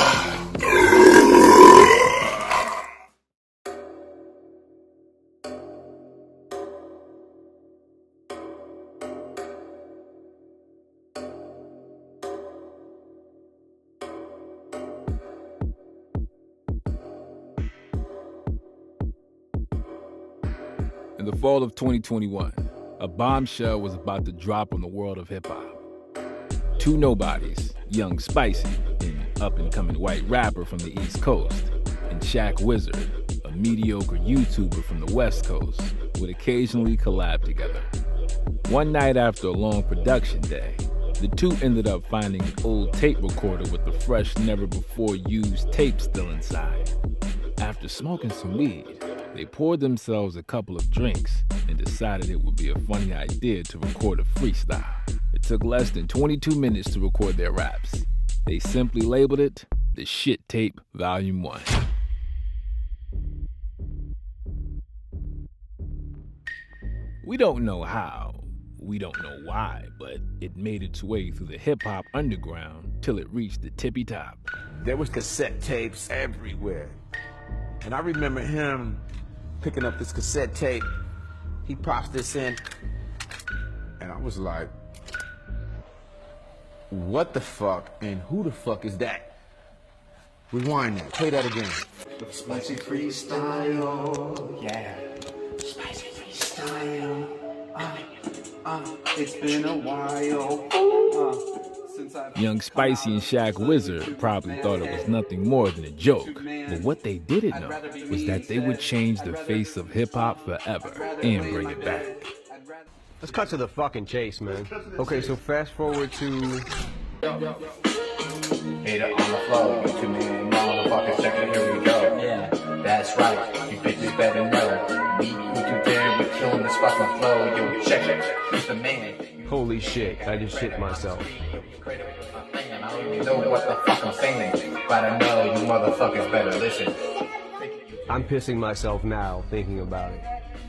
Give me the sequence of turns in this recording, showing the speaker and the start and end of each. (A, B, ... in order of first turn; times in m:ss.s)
0:21.2-0:25.8 A
0:26.8-0:37.9 A
0:38.6-0:46.9 A
0:47.6-1:01.7 A
1:07.2-1:14.5 A
1:14.8-1:17.0 B
1:17.8-1:19.0 B
1:19.6-1:20.9 B
1:21.6-1:22.6 B
1:24.0-1:24.7 B
1:26.9-1:29.3 B
1:30.5-1:31.8 B
1:32.5-1:32.8 B
1:32.5-1:33.7 C
1:34.6-1:35.0 C
1:36.5-1:37.1 C
1:37.7-1:38.0 D
1:38.6-1:45.1 D
1:42.3-1:52.2 A
1:46.2-1:46.9 D
1:47.5-1:50.0 D
1:50.8-1:52.9 D
1:53.2-1:56.7 E
1:58.8-2:17.0 C
2:09.4-2:11.3 E
2:17.6-2:18.3 C
2:18.1-2:20.2 E